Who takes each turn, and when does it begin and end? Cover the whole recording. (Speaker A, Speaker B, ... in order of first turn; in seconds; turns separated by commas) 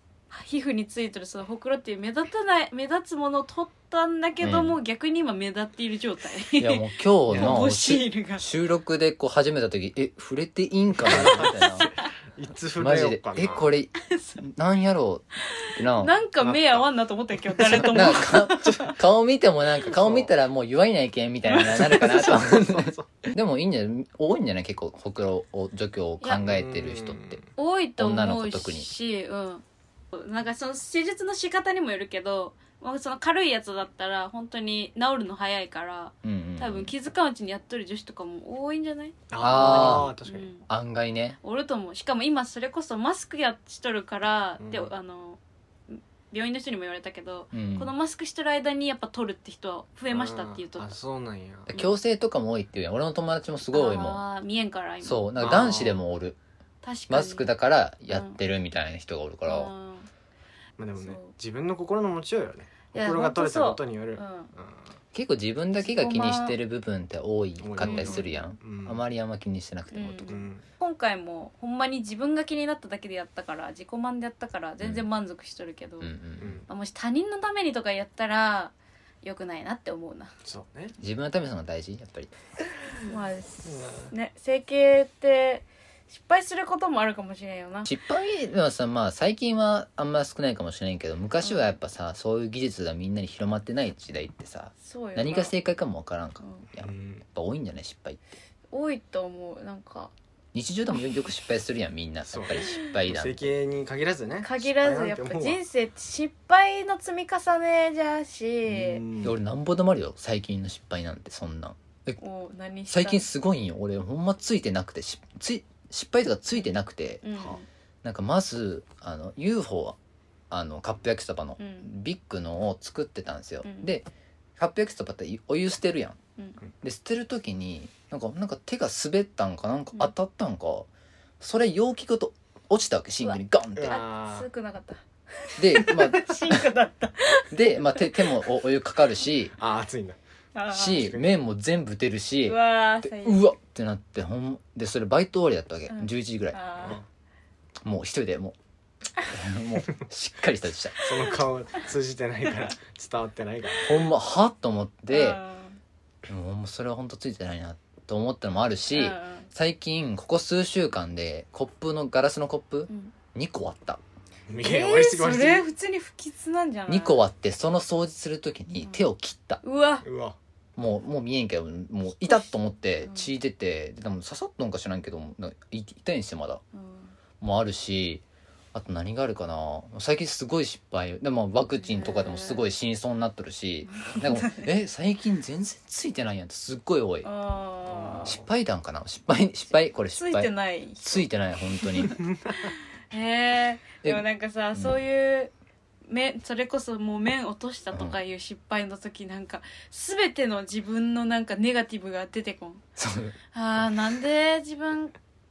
Speaker A: 0.3-8.4, Speaker B: 4.4-4.8, Speaker B: 6.6-11.8, Speaker C: 7.3-7.6, Speaker C: 11.0-13.7, Speaker A: 11.3-12.1, Speaker B: 12.8-16.1, Speaker A: 14.0-14.4, Speaker A: 15.5-18.9, Speaker C: 16.4-16.9, Speaker C: 17.5-18.9, Speaker B: 17.7-27.4, Speaker C: 19.9-20.3, Speaker A: 21.6-22.3, Speaker C: 21.9-23.1, Speaker C: 26.4-27.4, Speaker A: 27.6-40.6, Speaker B: 28.0-28.9, Speaker B: 36.2-36.9, Speaker C: 39.3-40.5, Speaker B: 39.4-40.1, Speaker B: 40.7-41.4, Speaker A: 41.4-45.4, Speaker C: 44.6-44.9, Speaker A: 45.9-51.0, Speaker B: 47.5-47.9, Speaker C: 50.1-51.7, Speaker B: 51.7-54.2, Speaker A: 53.7-55.3, Speaker B: 55.0-56.4, Speaker C: 55.4-56.0, Speaker A: 56.8-57.5, Speaker B: 57.1-59.7, Speaker A: 58.1-58.4, Speaker A: 59.5-60.1, Speaker C: 60.8-64.9, Speaker A: 61.0-61.3, Speaker A: 62.9-64.5, Speaker B: 65.1-70.4, Speaker A: 65.8-66.5, Speaker C: 67.6-69.0, Speaker A: 67.8-68.5, Speaker A: 69.9-76.1, Speaker C: 70.3-70.6, Speaker B: 74.8-75.0, Speaker B: 76.0-76.6, Speaker C: 76.4-76.7, Speaker A: 76.7-80.3, Speaker C: 80.4-80.9, Speaker B: 81.0-82.3, Speaker A: 83.0-87.9, Speaker C: 83.6-84.1, Speaker B: 87.8-98.2, Speaker A: 91.4-91.8, Speaker A: 94.8-95.5, Speaker A: 96.4-96.7, Speaker C: 96.8-97.2, Speaker A: 98.7-100.1, Speaker B: 100.5-103.5, Speaker C: 102.3-105.6, Speaker A: 104.4-109.0, Speaker C: 108.7-109.3, Speaker B: 109.2-112.2, Speaker A: 112.2-113.2, Speaker B: 112.9-117.2, Speaker A: 117.2-117.7, Speaker B: 118.0-120.0, Speaker B: 120.5-126.2, Speaker A: 121.6-121.9, Speaker A: 123.6-123.9, Speaker B: 126.8-130.9, Speaker B: 131.4-134.0, Speaker A: 133.2-138.0, Speaker C: 133.8-134.5, Speaker B: 135.6-136.7, Speaker B: 137.5-139.5, Speaker C: 139.6-140.2, Speaker A: 140.5-141.0, Speaker B: 140.7-146.9, Speaker C: 140.9-141.2, Speaker A: 142.4-143.4, Speaker A: 145.9-147.0, Speaker B: 147.8-148.6, Speaker B: 149.3-151.0, Speaker C: 151.0-153.9, Speaker B: 153.8-155.4, Speaker A: 155.1-155.8, Speaker B: 156.3-164.0, Speaker A: 158.9-159.5, Speaker A: 162.9-163.1, Speaker C: 164.5-165.7, Speaker A: 164.6-167.2, Speaker B: 166.9-169.6, Speaker A: 169.6-170.0, Speaker C: 170.0-170.3, Speaker B: 170.8-176.6, Speaker A: 173.0-173.3, Speaker A: 176.7-177.1, Speaker B: 177.4-187.3, Speaker A: 181.8-182.6, Speaker A: 183.9-184.7, Speaker A: 187.2-188.3, Speaker C: 187.9-188.4, Speaker B: 188.2-192.2, Speaker A: 190.1-191.3, Speaker A: 191.8-195.5, Speaker C: 192.2-192.6, Speaker A: 196.1-202.8, Speaker B: 197.9-198.2, Speaker B: 203.0-203.3, Speaker A: 203.5-205.1